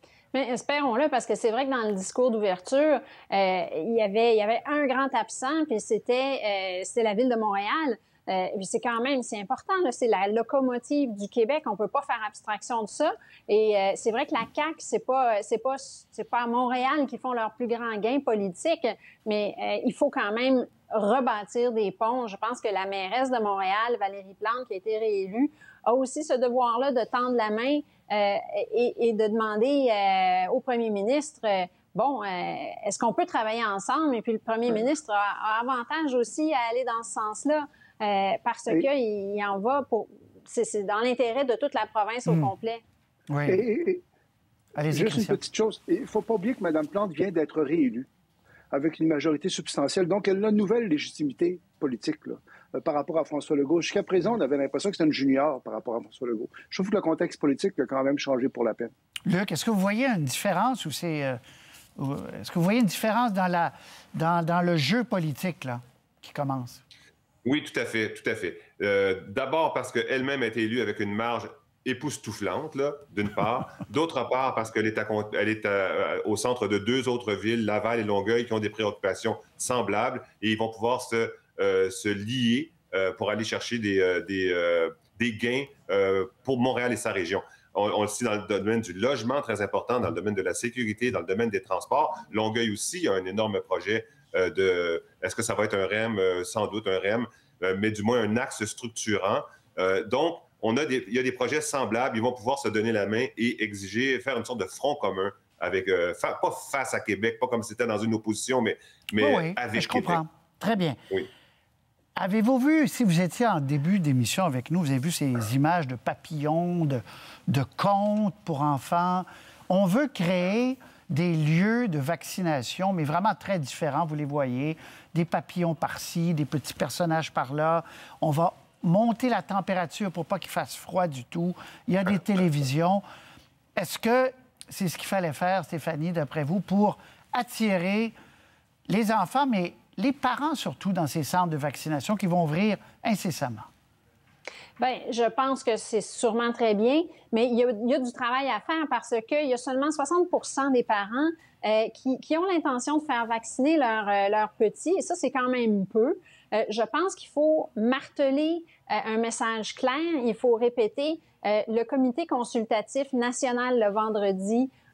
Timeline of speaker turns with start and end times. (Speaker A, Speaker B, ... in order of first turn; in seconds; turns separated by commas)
Speaker A: 0.3-42.8, Speaker B: 42.3-42.5, Speaker B: 43.3-43.6, Speaker C: 43.5-44.0, Speaker B: 44.8-45.4, Speaker C: 44.9-48.1, Speaker C: 48.7-58.9, Speaker B: 59.2-61.4, Speaker B: 62.0-66.8, Speaker D: 67.4-110.2, Speaker B: 109.2-111.0, Speaker B: 112.2-133.0, Speaker B: 133.8-138.1, Speaker B: 138.9-143.7, Speaker A: 144.8-164.7